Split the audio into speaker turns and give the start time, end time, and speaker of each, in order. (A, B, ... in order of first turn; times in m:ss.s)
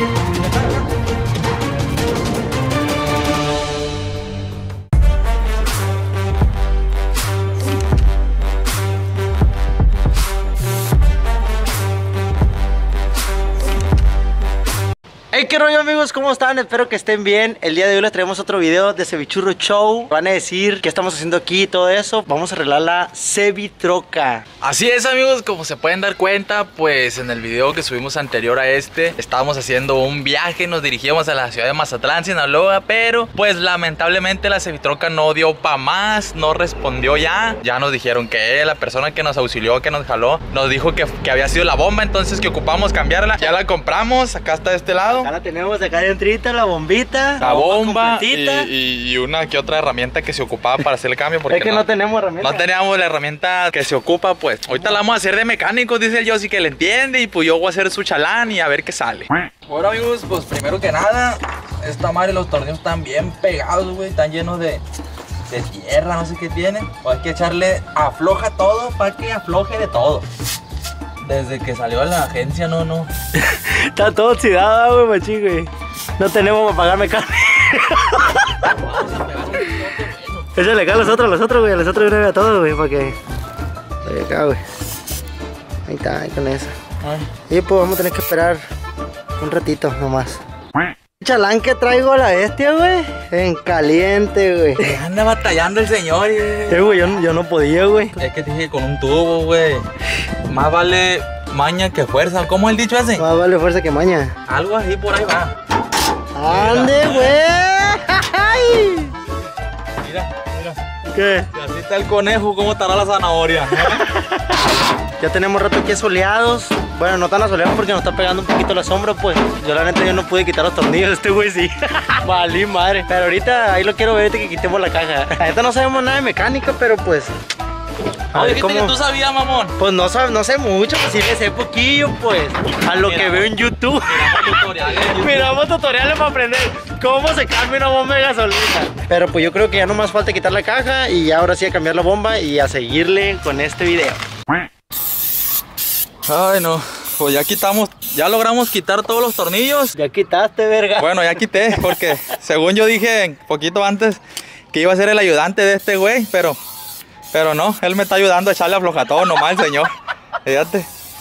0:00.3-0:00.8 A
0:15.3-0:24.4 B
0:24.6-0:45.3 A
0:45.2-0:48.7 B
0:47.4-0:51.8 A
0:51.5-0:52.6 B
0:52.4-1:04.8 A
1:05.5-1:10.2 A
1:11.2-1:13.1 A
1:13.3-1:18.7 B
1:18.7-1:20.6 A
1:20.6-1:23.2 B
1:24.0-1:24.6 B
1:25.8-1:26.7 B
1:27.0-1:27.3 A
1:27.5-1:28.6 B
1:29.4-1:30.4 B
1:31.2-1:35.0 B
1:34.8-1:36.9 A
1:36.7-1:38.2 B
1:38.2-1:39.8 A
1:40.5-1:43.2 A
1:43.2-1:44.3 B
1:44.5-1:45.5 A
1:46.3-1:49.1 B
1:46.5-1:47.4 A
1:50.0-1:50.6 A
1:50.6-1:51.5 B
1:51.5-1:54.0 A
1:53.8-1:54.4 B
1:55.2-2:07.3 B
2:08.3-2:09.0 B
2:08.3-2:09.7 A
2:09.8-2:14.5 B
2:12.9-2:15.5 A
2:15.1-2:24.2 B
2:26.3-2:29.9 A
2:29.9-2:31.8 B
2:31.0-2:34.2 A
2:34.7-2:36.6 A
2:37.3-2:39.9 A
2:40.4-2:40.9 A